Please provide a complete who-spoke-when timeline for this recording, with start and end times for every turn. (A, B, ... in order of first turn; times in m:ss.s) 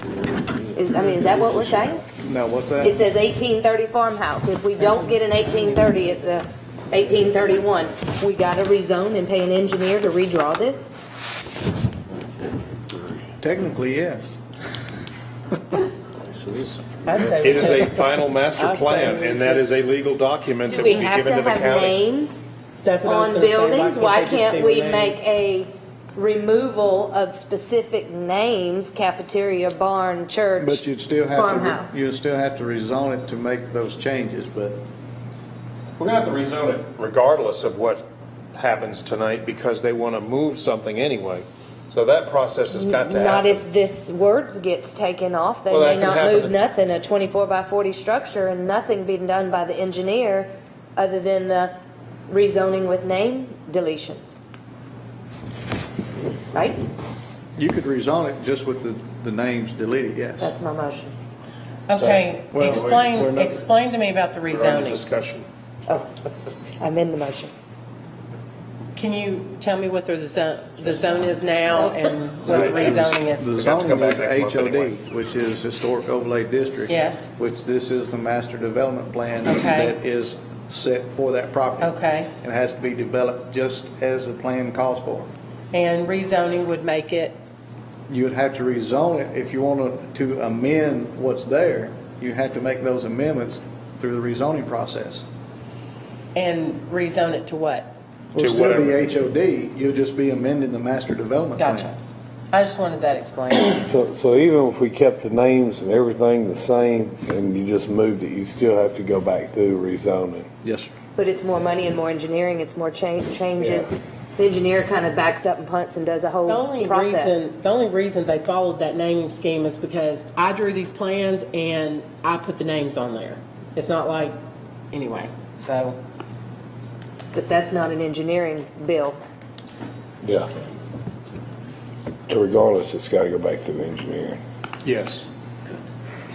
0:00.7-0:02.0 A
0:02.1-0:03.0 B
0:02.8-0:10.9 A
0:04.8-0:06.0 C
0:13.4-0:14.4 B
0:16.3-0:16.8 B
0:17.0-0:19.6 C
0:17.4-0:22.0 D
0:20.7-0:22.4 A
0:22.8-0:25.2 C
0:23.0-0:32.0 A
0:30.6-0:34.8 B
0:36.0-0:38.0 D
0:38.5-0:43.6 D
0:42.7-0:51.7 A
0:45.7-0:46.5 D
0:52.3-0:54.4 A
0:56.5-0:56.8 A
0:57.6-1:00.5 B
1:00.4-1:01.1 A
1:01.9-1:05.0 C
1:02.0-1:03.0 D
1:02.5-1:03.6 B
1:04.5-1:05.5 D
1:05.9-1:06.1 A
1:06.8-1:07.5 A
1:08.9-1:13.5 C
1:12.5-1:25.3 B
1:13.5-1:15.0 D
1:16.9-1:17.3 C
1:19.4-1:20.0 C
1:21.8-1:22.3 C
1:25.7-1:27.4 C
1:28.1-1:35.2 B
1:36.3-1:37.9 C
1:38.3-1:41.9 B
1:38.4-1:39.0 D
1:41.6-1:42.0 C
1:42.5-1:43.8 C
1:43.7-1:50.5 E
1:50.6-1:50.9 B
1:51.2-1:57.4 A
1:56.4-2:04.4 C
2:04.9-2:06.0 C
2:07.3-2:09.2 A
2:10.2-2:10.5 E
2:12.3-2:14.4 E
2:14.8-2:15.2 D